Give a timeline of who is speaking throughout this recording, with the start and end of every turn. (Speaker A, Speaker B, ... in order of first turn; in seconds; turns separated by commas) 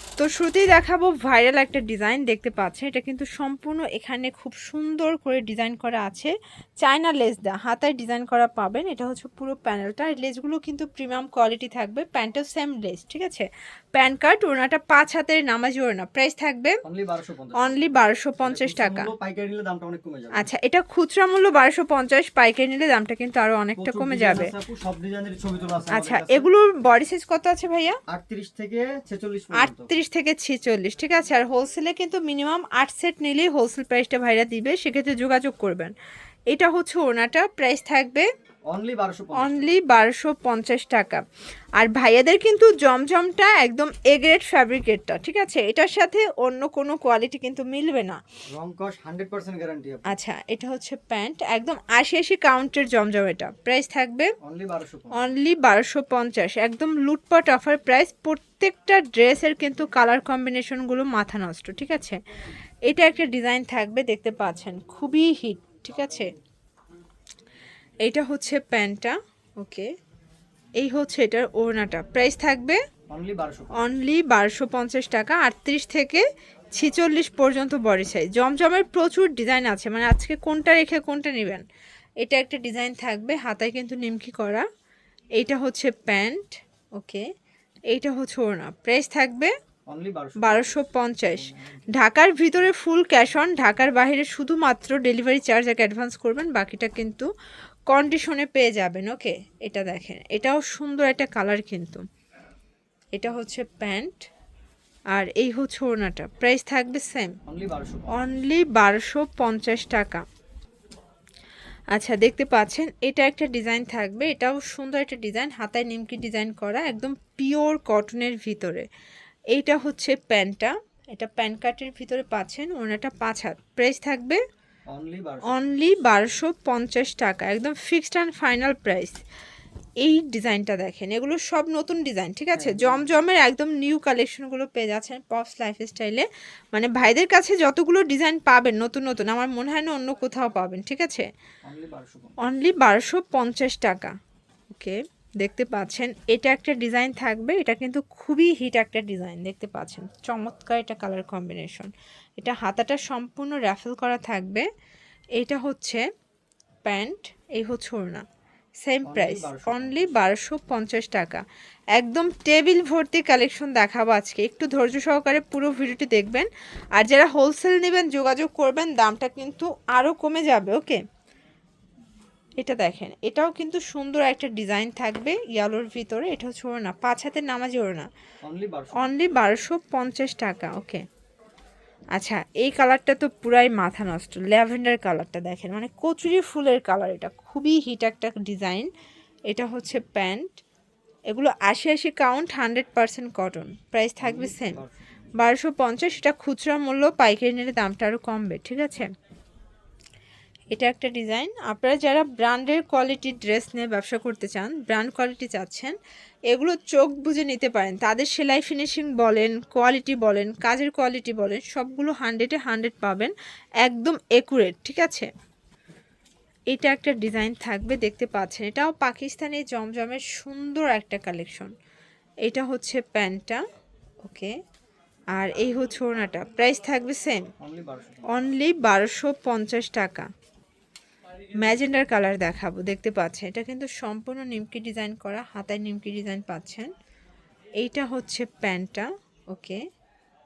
Speaker A: 0.2-16.8, Speaker B: 16.8-20.5, Speaker A: 17.6-19.1, Speaker A: 20.4-24.5, Speaker B: 23.8-26.5, Speaker A: 25.9-28.0, Speaker B: 28.1-29.9, Speaker A: 29.6-35.9, Speaker A: 36.5-38.2, Speaker B: 38.7-39.8, Speaker A: 39.4-41.2, Speaker A: 41.8-48.2, Speaker B: 48.5-50.1, Speaker A: 50.1-54.3, Speaker B: 54.4-55.2, Speaker A: 55.1-62.2, Speaker A: 62.9-66.3, Speaker A: 68.0-69.9, Speaker A: 70.8-72.8, Speaker B: 73.1-73.8, Speaker A: 73.8-81.6, Speaker A: 82.2-84.6, Speaker A: 85.3-87.2, Speaker A: 87.9-89.5, Speaker B: 89.9-91.9, Speaker A: 90.4-97.2, Speaker A: 97.9-102.0, Speaker A: 103.1-104.2, Speaker A: 105.1-107.4, Speaker B: 107.5-108.2, Speaker A: 108.1-110.2, Speaker A: 111.9-118.8, Speaker A: 119.5-124.4, Speaker B: 124.9-125.7, Speaker A: 125.5-129.2, Speaker A: 130.0-141.3, Speaker B: 132.5-133.2, Speaker B: 141.6-142.3, Speaker A: 142.4-144.1, Speaker A: 144.7-154.7, Speaker A: 155.3-156.0, Speaker A: 156.8-158.2, Speaker A: 158.8-161.4, Speaker B: 159.0-160.1, Speaker A: 161.9-171.0, Speaker A: 172.6-178.1, Speaker B: 178.4-179.1, Speaker A: 178.9-181.0, Speaker A: 182.1-188.9, Speaker A: 189.5-190.5, Speaker A: 191.3-194.8, Speaker B: 194.2-195.2, Speaker A: 195.4-199.1, Speaker A: 200.7-205.9, Speaker A: 206.5-215.3, Speaker A: 216.7-221.7, Speaker A: 222.4-223.6, Speaker A: 224.2-224.5, Speaker A: 225.3-227.5, Speaker B: 227.6-228.3, Speaker A: 228.3-230.3, Speaker A: 231.6-236.9, Speaker A: 237.8-239.8